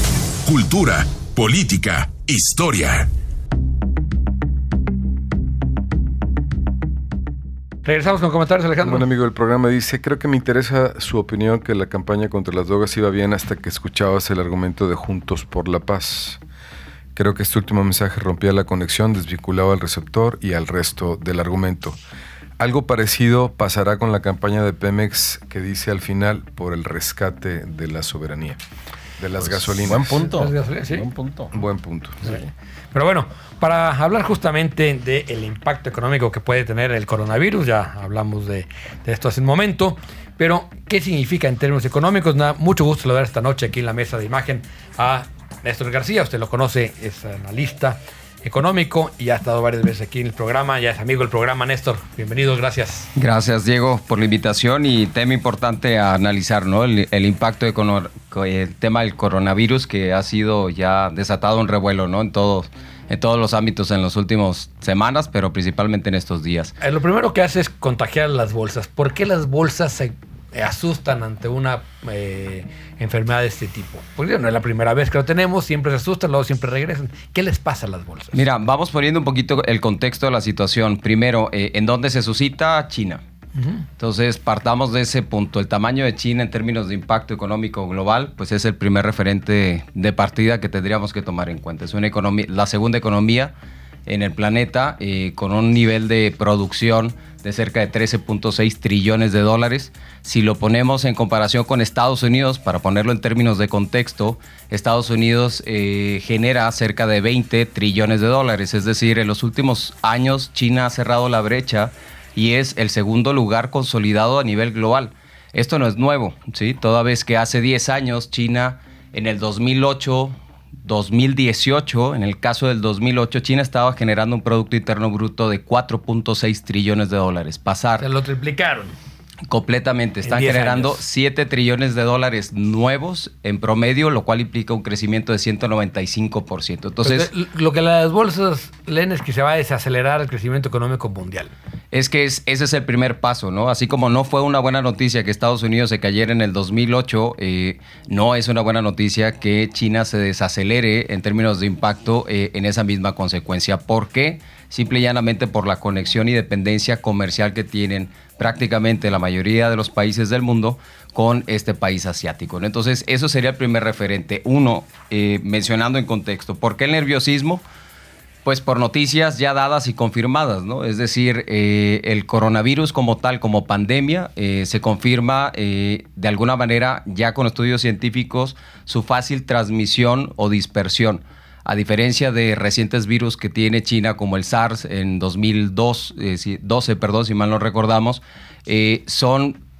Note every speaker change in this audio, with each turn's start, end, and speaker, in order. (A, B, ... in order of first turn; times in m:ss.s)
0:00.4-0:03.1 A
0:07.8-0:09.0 B
0:08.8-0:16.4 C
0:17.2-0:22.0 C
0:22.6-0:28.6 C
0:29.2-0:30.2 C
0:29.4-0:31.5 D
0:30.1-0:31.1 B
0:31.5-0:32.2 C
0:32.9-0:53.1 B
0:53.1-1:06.7 E
1:06.8-1:18.4 B
1:18.3-1:23.2 E
1:23.6-1:23.8 B
1:24.0-1:33.5 E
1:34.0-2:08.0 E
2:08.0-2:08.9 B
2:09.5-2:17.3 E
2:10.2-2:11.0 B
2:17.0-2:21.5 B
2:21.9-2:47.6 E
2:48.4-3:09.6 E